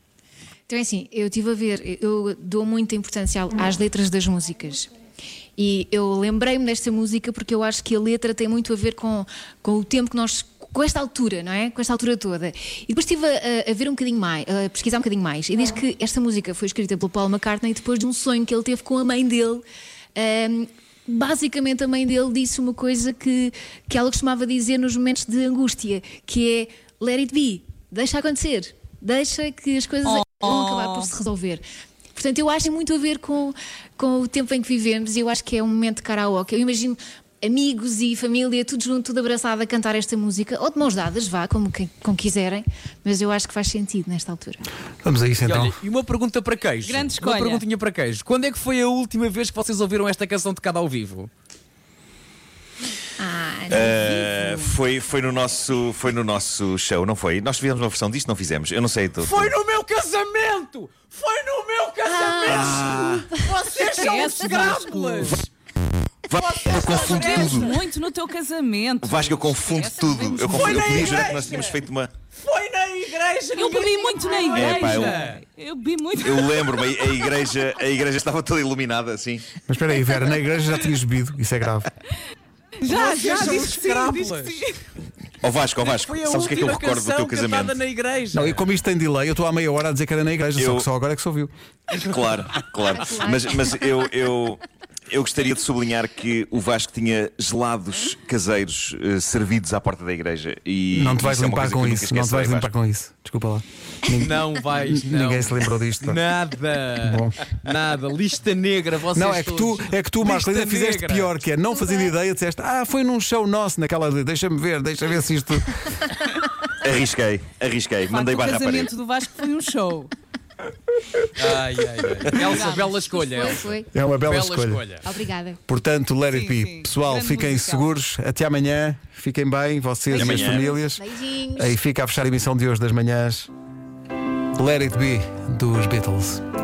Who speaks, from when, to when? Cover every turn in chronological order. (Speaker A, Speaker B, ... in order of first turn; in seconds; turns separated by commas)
Speaker A: 0.7-4.9, Speaker A: 5.6-19.6, Speaker A: 20.2-31.6, Speaker B: 30.2-31.1, Speaker A: 32.2-44.6, Speaker C: 45.0-45.8, Speaker D: 45.4-51.3, Speaker B: 46.8-47.6, Speaker A: 53.2-54.1, Speaker E: 53.7-59.5, Speaker D: 59.2-65.5, Speaker A: 62.0-64.2, Speaker E: 62.5-63.3, Speaker B: 63.9-65.4, Speaker E: 66.3-67.8, Speaker D: 66.4-67.8, Speaker B: 66.9-71.0, Speaker E: 69.0-72.1, Speaker D: 70.5-71.8, Speaker D: 72.4-75.4, Speaker B: 73.5-76.9, Speaker E: 74.5-75.3, Speaker E: 76.2-79.5, Speaker C: 79.7-81.9, Speaker B: 82.8-84.8, Speaker D: 82.8-84.7, Speaker E: 85.4-87.8, Speaker D: 85.8-88.7, Speaker C: 88.3-91.5, Speaker E: 90.6-90.9, Speaker E: 91.9-102.7, Speaker A: 92.9-93.7, Speaker C: 100.9-106.2, Speaker D: 104.2-111.4, Speaker C: 107.0-107.4, Speaker C: 109.1-116.0, Speaker A: 111.8-112.1, Speaker E: 116.8-118.9, Speaker B: 118.1-120.1, Speaker D: 121.3-125.1, Speaker B: 122.4-123.2, Speaker A: 123.2-123.9, Speaker C: 123.9-124.8, Speaker A: 125.0-125.6, Speaker C: 125.7-133.5, Speaker B: 126.3-127.9, Speaker B: 130.2-130.8, Speaker E: 130.2-130.7, Speaker A: 130.4-131.8, Speaker C: 134.6-136.4